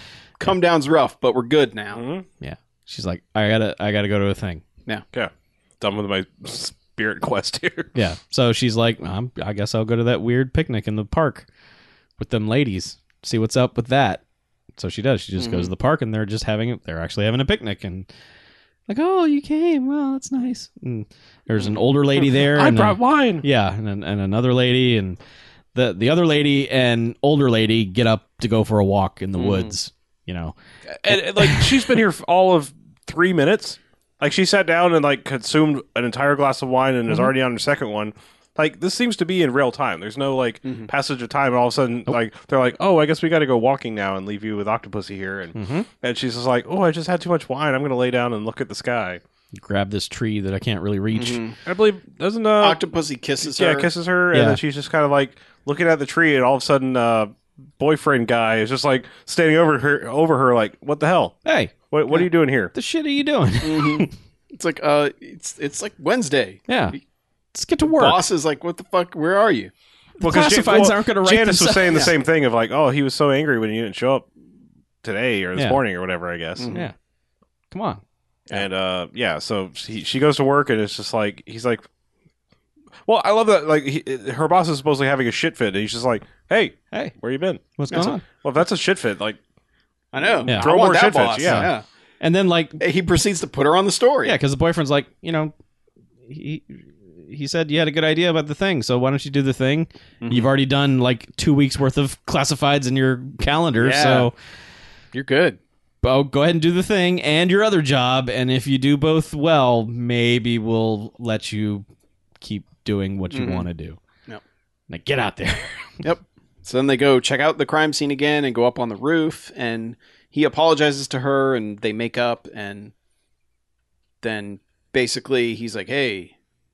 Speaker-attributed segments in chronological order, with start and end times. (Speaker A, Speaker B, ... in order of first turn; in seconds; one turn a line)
Speaker A: 0.4-2.0
Speaker B: 1.9-2.2
Speaker C: 2.4-4.6
Speaker B: 5.1-8.0
Speaker C: 7.9-11.5
Speaker C: 12.2-14.2
Speaker C: 14.8-18.1
Speaker A: 15.4-15.7
Speaker C: 18.9-25.2
Speaker B: 22.1-23.4
Speaker C: 25.7-30.5
Speaker A: 29.4-29.7
Speaker B: 30.9-49.2
Speaker C: 31.1-31.9
Speaker C: 45.5-45.9
Speaker C: 49.5-51.4
Speaker A: 51.1-51.6
Speaker B: 51.6-52.8
Speaker A: 52.6-53.9
Speaker B: 53.4-61.4
Speaker C: 54.3-54.6
Speaker C: 61.4-61.7
Speaker B: 61.9-62.7
Speaker C: 62.7-64.1
Speaker A: 63.6-66.8
Speaker C: 66.7-67.0
Speaker C: 67.5-68.2
Speaker A: 67.8-69.7
Speaker C: 70.2-72.1
Speaker B: 70.2-74.3
Speaker B: 75.0-76.8
Speaker C: 75.5-75.8
Speaker A: 76.6-76.9
Speaker C: 77.7-78.0
Speaker B: 78.5-81.8
Speaker B: 83.0-87.6
Speaker C: 87.8-88.2
Speaker A: 87.9-88.2
Speaker B: 88.2-89.4
Speaker A: 90.1-91.8
Speaker B: 90.2-91.7
Speaker C: 91.4-92.8
Speaker A: 92.8-94.4
Speaker C: 94.2-95.5
Speaker C: 96.2-104.3
Speaker A: 100.2-100.5
Speaker A: 103.8-104.3
Speaker A: 105.1-105.6
Speaker C: 106.0-111.8
Speaker C: 112.4-114.0
Speaker A: 113.3-113.7
Speaker C: 114.9-116.0
Speaker A: 116.0-122.9
Speaker A: 124.2-126.3